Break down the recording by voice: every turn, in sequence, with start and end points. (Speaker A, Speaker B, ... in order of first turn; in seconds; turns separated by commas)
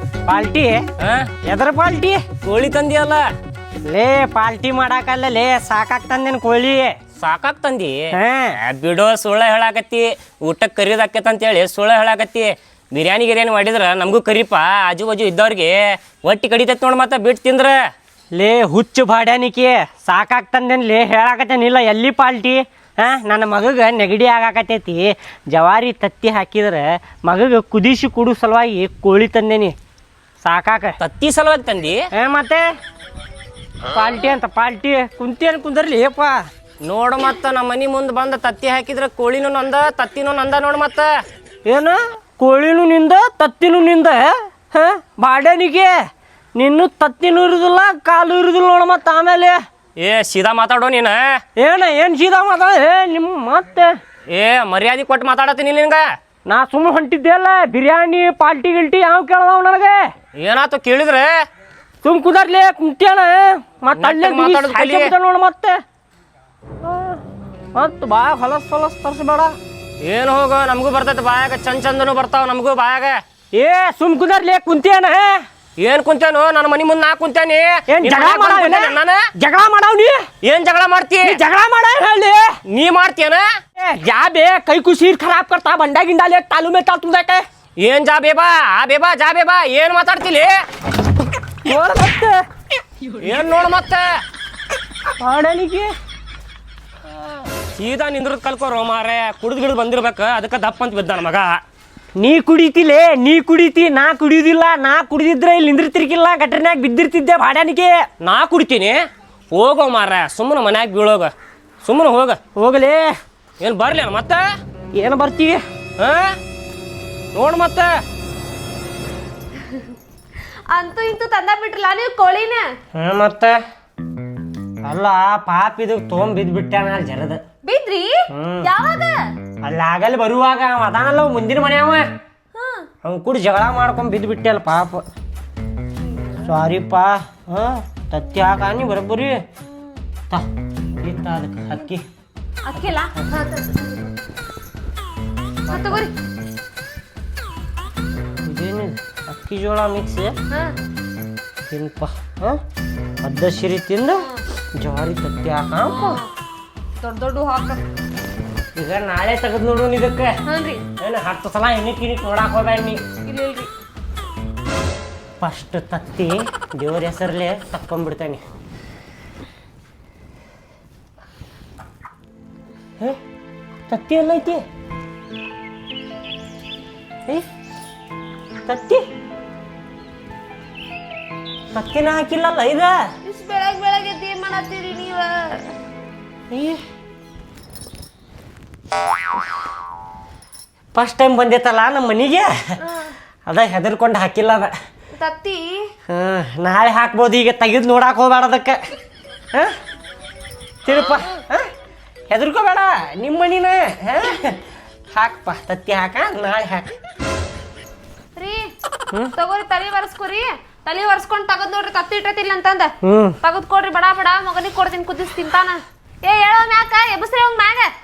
Speaker A: 0.2-0.9, Speaker B: 1.0-1.3, Speaker A: 1.4-2.3, Speaker B: 2.4-3.3, Speaker A: 3.8-7.0, Speaker B: 7.2-17.8, Speaker A: 8.1-8.6, Speaker A: 18.3-29.7, Speaker A: 30.4-31.0, Speaker B: 31.0-32.0, Speaker A: 32.1-32.7, Speaker A: 33.9-36.4, Speaker B: 36.8-41.1, Speaker A: 41.6-46.0, Speaker A: 46.5-49.6, Speaker B: 50.0-51.4, Speaker A: 51.5-53.9, Speaker B: 54.3-56.1, Speaker A: 56.5-60.1, Speaker B: 60.3-61.4, Speaker A: 62.0-65.8, Speaker B: 64.0-65.1, Speaker A: 66.8-67.2, Speaker A: 67.7-69.6, Speaker B: 70.0-73.2, Speaker A: 73.5-75.4, Speaker B: 75.8-79.2, Speaker A: 77.9-80.3, Speaker B: 80.4-81.4, Speaker A: 81.2-82.6, Speaker B: 82.7-83.5, Speaker A: 83.8-87.4, Speaker B: 87.8-90.6, Speaker A: 91.6-92.4, Speaker B: 93.2-94.1, Speaker A: 95.2-95.9, Speaker B: 97.7-101.6, Speaker A: 102.2-108.1, Speaker B: 108.2-112.4, Speaker A: 112.5-113.1, Speaker B: 113.6-114.4, Speaker A: 114.9-115.6, Speaker B: 116.0-116.4, Speaker B: 117.3-117.9, Speaker C: 119.6-119.9, Speaker C: 120.7-122.7, Speaker A: 122.9-123.6, Speaker A: 124.8-127.4, Speaker C: 127.6-129.3, Speaker A: 128.3-128.7, Speaker A: 129.6-132.0, Speaker C: 132.5-132.9, Speaker A: 133.0-135.0, Speaker A: 136.4-139.4, Speaker A: 141.0-142.0, Speaker C: 142.7-144.1, Speaker A: 145.7-146.1, Speaker C: 145.7-146.1, Speaker A: 148.4-150.3, Speaker C: 150.5-150.8, Speaker A: 151.7-152.6, Speaker A: 153.2-156.2, Speaker C: 155.8-156.3, Speaker C: 157.0-157.8, Speaker A: 158.7-160.3, Speaker C: 160.4-160.8, Speaker A: 161.0-163.0, Speaker C: 163.2-163.7, Speaker A: 165.4-168.4, Speaker A: 173.9-174.6, Speaker A: 178.6-179.1, Speaker A: 181.7-183.1, Speaker C: 183.2-185.7, Speaker A: 186.5-186.8, Speaker A: 190.9-192.8, Speaker C: 192.8-193.1, Speaker A: 193.5-194.7, Speaker C: 195.2-195.8, Speaker A: 196.1-198.8, Speaker A: 200.8-201.7, Speaker A: 202.3-204.6, Speaker A: 205.1-206.9, Speaker C: 208.3-208.7, Speaker C: 209.3-217.9, Speaker A: 213.0-213.4